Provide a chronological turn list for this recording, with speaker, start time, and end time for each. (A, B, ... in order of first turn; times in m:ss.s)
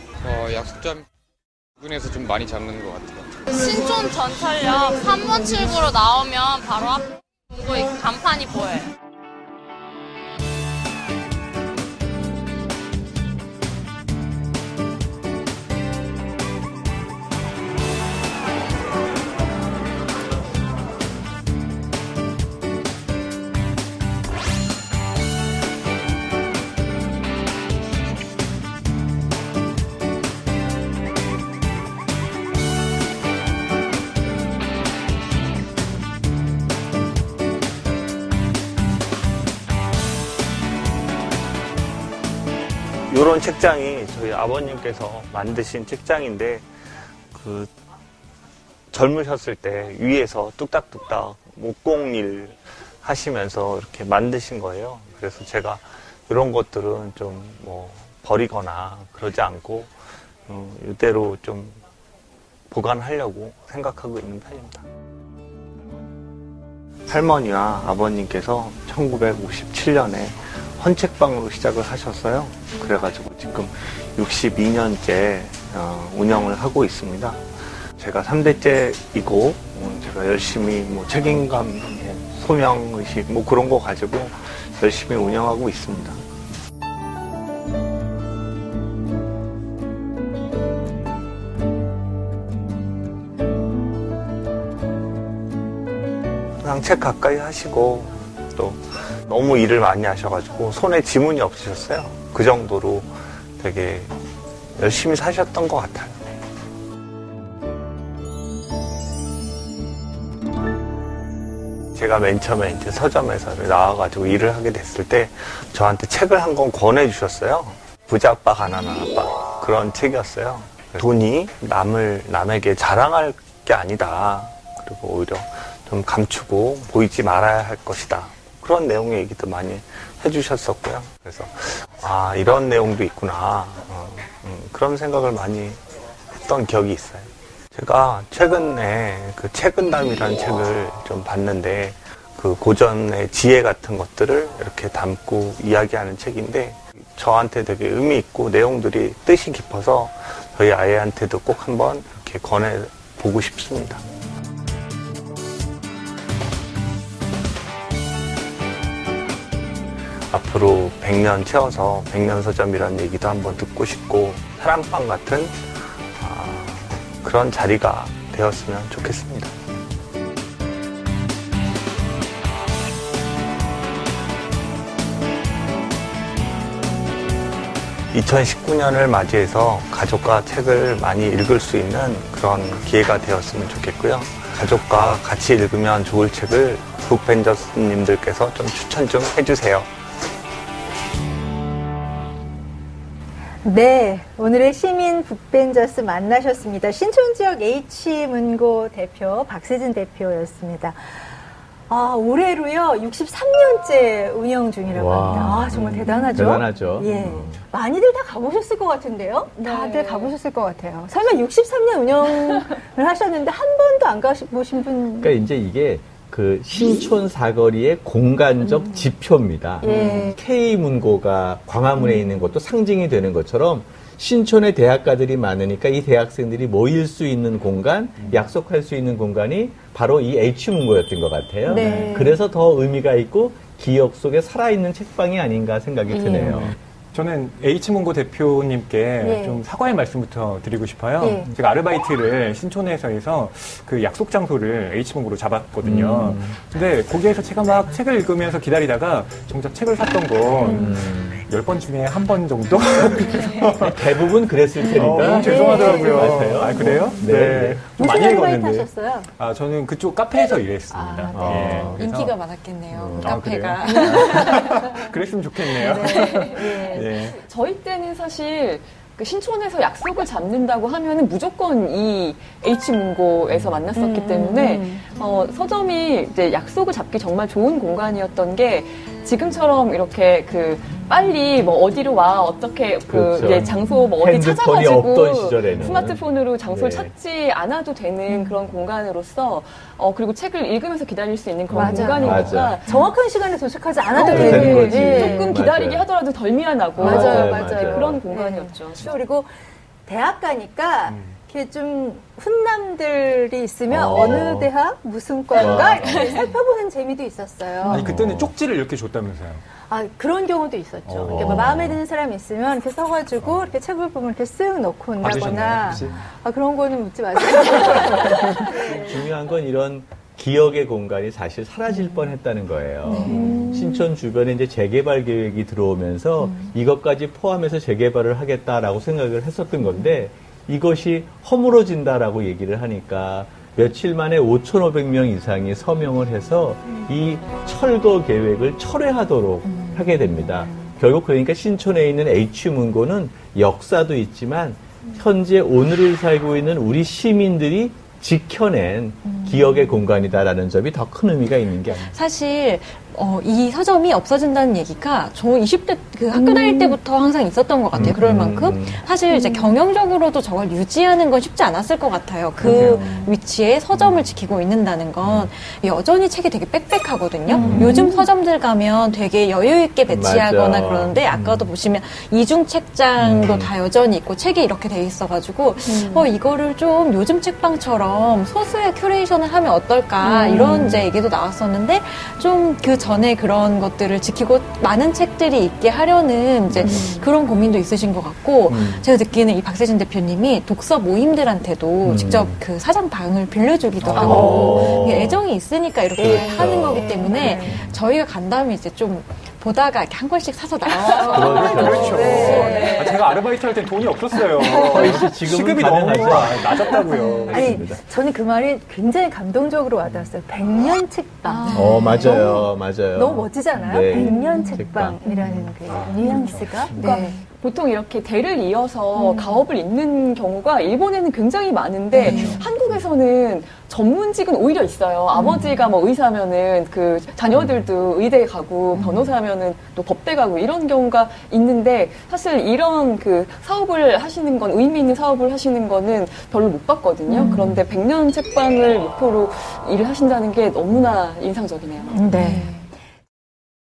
0:00.2-0:01.1 A
0:01.8-0:03.3 A
0:03.5-0:08.9 B
0:43.1-0:46.7 C
0:47.3-0:47.7 C
0:48.9-0:59.9 C
1:00.5-1:01.8 C
1:02.7-1:04.8 C
1:07.1-1:26.2 C
1:36.6-1:44.1 C
1:44.8-1:46.2 C
1:52.0-2:15.8 C
2:16.3-2:34.0 C
2:40.3-2:49.6 C
2:58.1-3:09.9 C
3:13.6-3:21.2 D
3:21.9-3:35.4 D
3:24.9-3:27.6 E
3:29.6-3:30.3 F
3:35.2-3:56.8 E
3:39.8-3:40.4 D
3:48.2-3:48.5 G
3:51.6-3:52.4 D
3:51.8-3:52.1 G
3:56.1-3:56.5 D
3:56.3-4:14.3 G
3:59.2-3:59.6 D
4:01.2-4:01.5 D
4:05.8-4:06.5 E
4:10.6-4:11.4 E
4:13.7-4:17.8 E
4:14.9-4:22.4 G
4:15.1-4:17.2 D
4:17.8-4:19.3 D
4:20.9-4:21.4 D
4:21.3-4:22.0 E
4:21.4-4:24.9 H
4:22.9-4:23.4 E
4:23.1-4:27.4 G
4:23.9-4:24.9 D
4:25.7-4:27.2 D
4:26.1-4:53.0 F
4:34.0-4:34.9 D
4:43.1-4:47.1 E
4:51.7-4:52.8 E
4:51.7-4:55.6 D
4:52.3-4:52.6 G
4:54.1-4:59.2 F
4:54.2-4:56.1 E
4:57.0-4:58.2 E
4:57.0-4:59.5 D
5:00.1-5:08.1 D
5:03.9-5:04.7 E
5:05.5-5:06.2 E
5:06.0-5:06.4 G
5:07.8-5:09.6 G
5:07.9-5:08.5 E
5:09.9-5:19.3 D
5:11.1-5:12.0 G
5:11.2-5:12.0 E
5:13.4-5:13.7 G
5:15.2-5:16.2 G
5:15.4-5:16.1 E
5:18.8-5:52.2 E
5:23.0-5:23.6 H
5:23.2-5:24.0 D
5:39.6-5:40.7 H
5:49.3-5:49.6 H
5:51.9-6:43.2 H
5:56.3-5:57.0 F
5:57.9-5:59.0 E
5:59.3-5:59.7 F
6:02.6-6:03.4 G
6:02.6-6:02.9 E
6:05.2-6:05.5 E
6:07.5-6:08.2 F
6:07.6-6:08.0 E
6:10.1-6:11.7 E
6:13.2-6:13.7 E
6:15.9-6:16.3 F
6:20.2-6:20.8 F
6:20.5-6:21.1 E
6:26.7-6:27.2 E
6:28.7-6:29.1 G
6:32.0-6:32.6 E
6:34.0-6:34.8 G
6:34.1-6:35.5 E
6:34.4-6:35.1 D
6:36.2-6:37.8 E
6:36.2-6:37.8 D
6:41.2-6:43.2 D
6:41.3-6:42.8 E
6:41.3-6:47.9 G
6:44.5-6:44.9 D
6:44.7-6:46.8 E
6:46.7-6:57.0 D
6:47.5-6:48.0 E
6:51.5-6:52.6 H
6:51.5-6:52.1 F
6:51.7-6:55.2 E
6:54.1-6:55.7 H
6:54.2-6:54.5 F
6:55.9-6:56.7 G
6:56.3-6:57.5 H
6:56.3-7:22.2 F
6:59.2-6:59.6 H
7:02.1-7:02.6 H
7:02.2-7:03.1 G
7:05.4-7:05.8 H
7:09.0-7:09.3 H
7:17.3-7:17.6 D
7:17.3-7:17.7 H
7:22.1-7:22.8 D
7:22.3-7:22.9 H